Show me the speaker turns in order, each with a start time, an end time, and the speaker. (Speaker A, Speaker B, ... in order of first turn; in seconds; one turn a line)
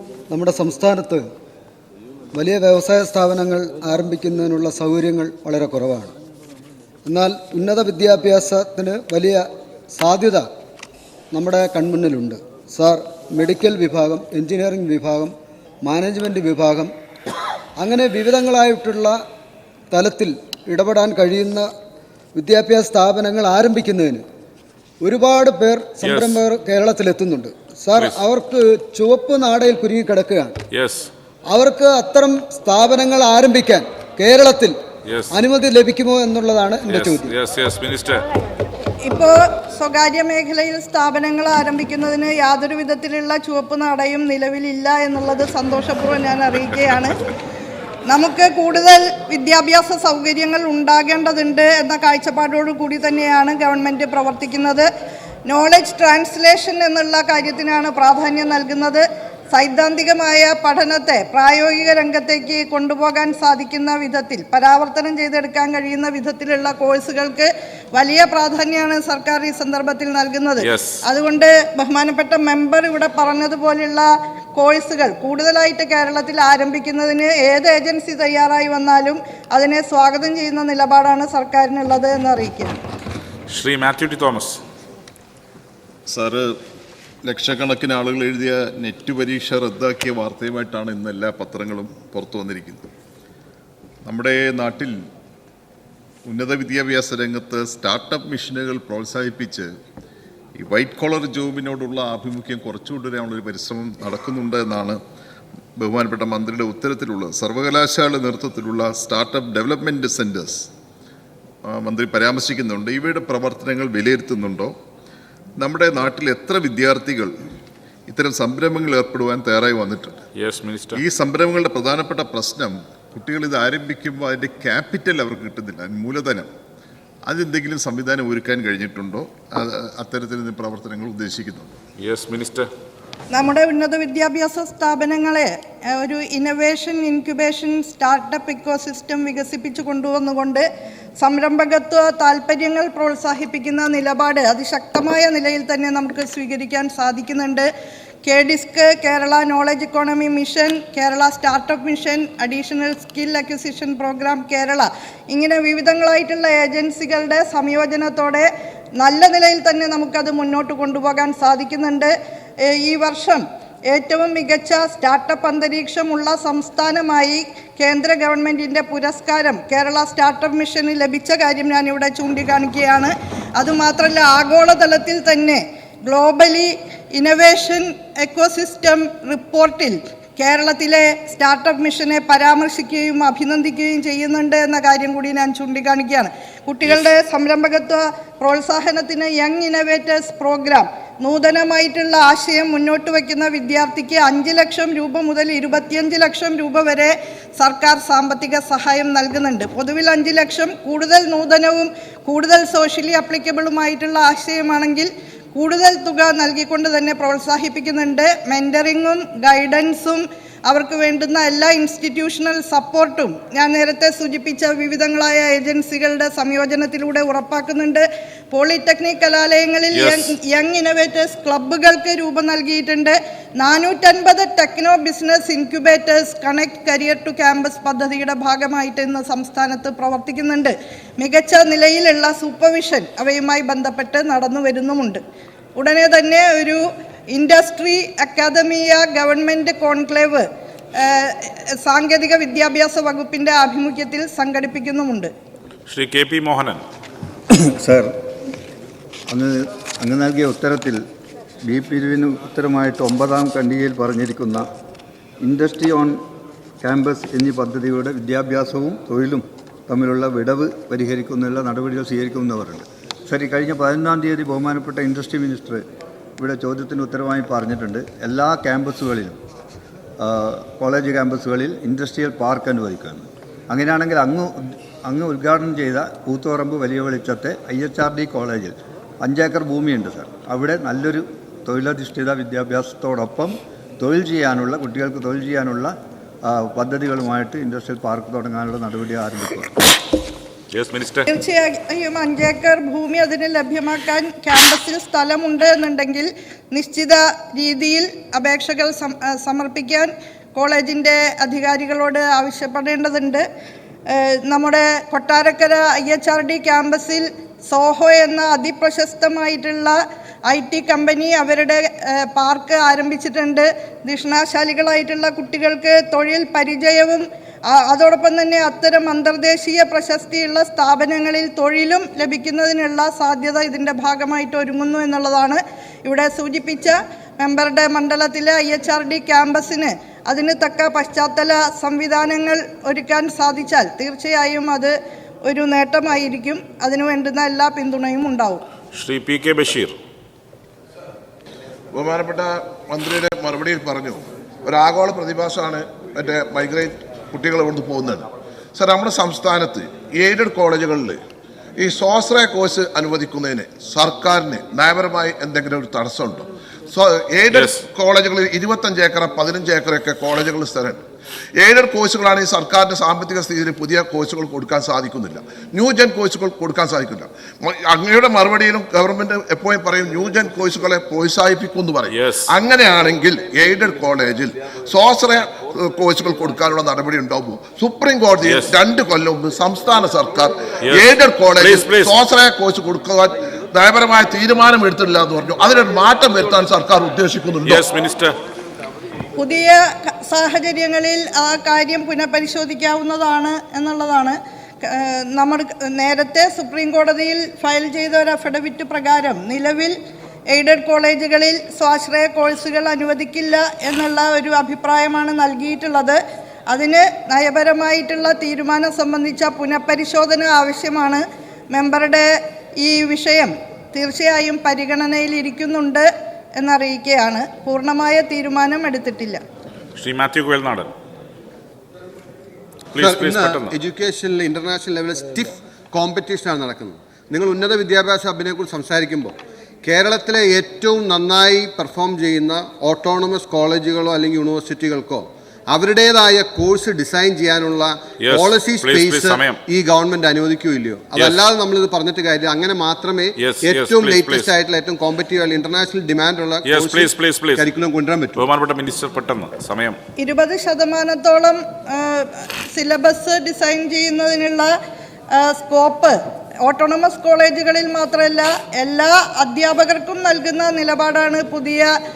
Speaker A: 0.3-1.2
Speaker A: 2.3-6.1
Speaker A: 7.1-10.5
Speaker A: 11.3-16.9
Speaker A: 17.8-19.2
Speaker A: 19.9-21.7
Speaker A: 22.4-24.2
Speaker A: 25.0-30.6
Speaker B: 26.0-26.4
Speaker B: 27.9-28.2
Speaker B: 30.7-31.1
Speaker A: 31.5-34.8
Speaker B: 35.1-35.4
Speaker A: 35.3-37.3
Speaker B: 36.9-38.2
Speaker C: 39.0-47.2
Speaker C: 48.1-54.9
Speaker C: 55.5-82.8
Speaker B: 70.6-71.0
Speaker B: 83.5-84.6
Speaker D: 86.1-86.5
Speaker D: 87.2-92.9
Speaker D: 94.0-94.9
Speaker D: 96.3-99.7
Speaker D: 100.6-105.0
Speaker D: 105.8-110.7
Speaker D: 111.7-114.7
Speaker D: 115.6-117.3
Speaker D: 118.1-120.2
Speaker B: 120.3-121.0
Speaker D: 121.0-126.5
Speaker D: 127.3-131.7
Speaker B: 132.0-132.7
Speaker C: 133.3-140.7
Speaker C: 141.2-147.7
Speaker C: 148.2-158.5
Speaker C: 159.0-162.1
Speaker C: 162.7-235.2
Speaker B: 219.9-220.3
Speaker C: 235.8-245.3
Speaker B: 245.9-246.8
Speaker E: 247.5-248.1
Speaker E: 249.3-251.0
Speaker E: 251.7-254.7
Speaker E: 255.4-256.2
Speaker E: 256.8-265.8
Speaker E: 266.4-269.4
Speaker E: 270.2-285.9
Speaker E: 286.4-289.8
Speaker B: 290.7-291.3
Speaker C: 291.3-303.4
Speaker C: 304.1-310.0
Speaker C: 310.5-338.6
Speaker B: 338.9-340.0
Speaker F: 341.9-351.2
Speaker F: 351.8-361.0
Speaker B: 357.5-357.8
Speaker F: 361.6-387.8
Speaker B: 372.1-372.5
Speaker B: 378.4-378.8
Speaker B: 380.9-382.2
Speaker B: 387.6-388.4
Speaker C: 389.4-399.9
Speaker C: 400.5-412.3
Speaker C: 412.8-419.4
Speaker B: 420.0-420.9
Speaker B: 422.9-423.8
Speaker G: 423.0-448.4
Speaker B: 438.2-439.6
Speaker B: 441.1-441.5
Speaker B: 443.4-444.6
Speaker B: 446.6-447.7
Speaker B: 448.4-450.0
Speaker C: 450.2-454.7
Speaker C: 455.3-461.9